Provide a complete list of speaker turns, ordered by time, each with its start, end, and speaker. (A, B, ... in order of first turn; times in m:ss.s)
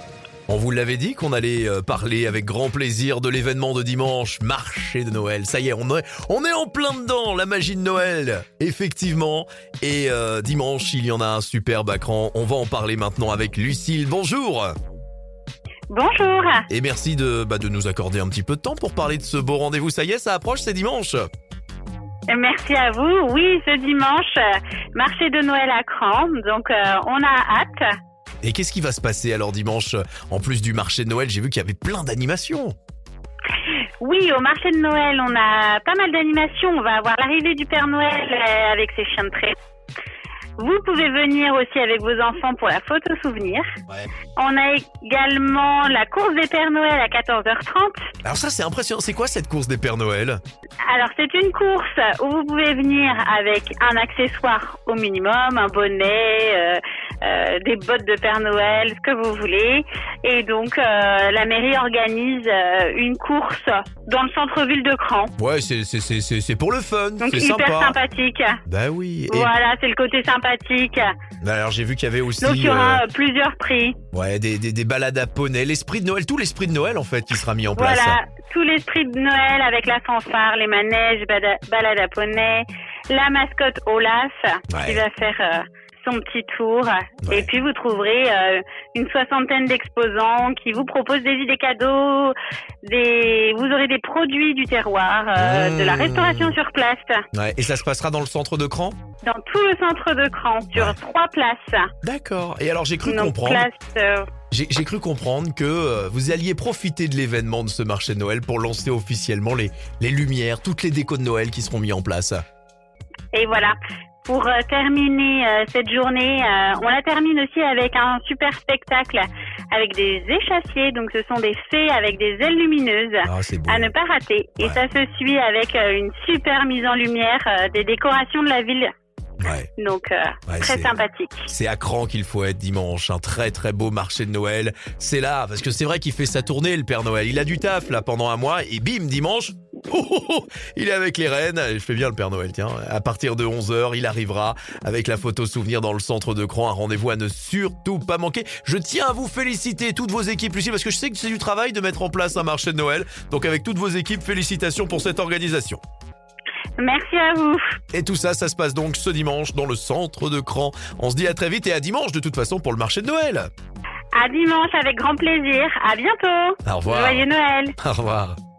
0:00.5-0:14.7 A
0:15.9-0:16.6 B
0:16.7-0:21.2 A
0:22.3-0:27.9 B
0:28.4-0:32.7 A
0:34.0-0:39.5 B
0:40.6-0:43.7 B
0:44.3-0:48.1 B
0:48.2-0:50.4 A
0:50.9-1:05.3 B
1:05.4-1:08.0 A
1:07.2-1:08.6 B
1:08.6-1:09.5 A
1:09.3-1:11.1 B
1:11.4-1:13.0 A
1:12.4-1:14.0 B
1:14.1-1:18.2 A
1:17.7-1:37.2 B
1:24.7-1:25.0 A
1:27.2-1:27.5 A
1:35.4-1:36.6 A
1:37.3-1:39.0 A
1:39.2-1:41.9 B
1:42.0-1:43.7 A
1:43.0-1:44.3 B
1:44.5-1:52.4 A
1:53.3-2:08.9 B
2:03.2-2:03.9 A
2:09.4-2:09.7 A
2:09.8-2:11.5 B
2:10.5-2:11.0 A
2:11.5-2:35.8 A
2:36.8-2:37.8 B
2:37.9-2:43.5 A
2:44.1-2:47.8 B
2:46.6-2:48.4 A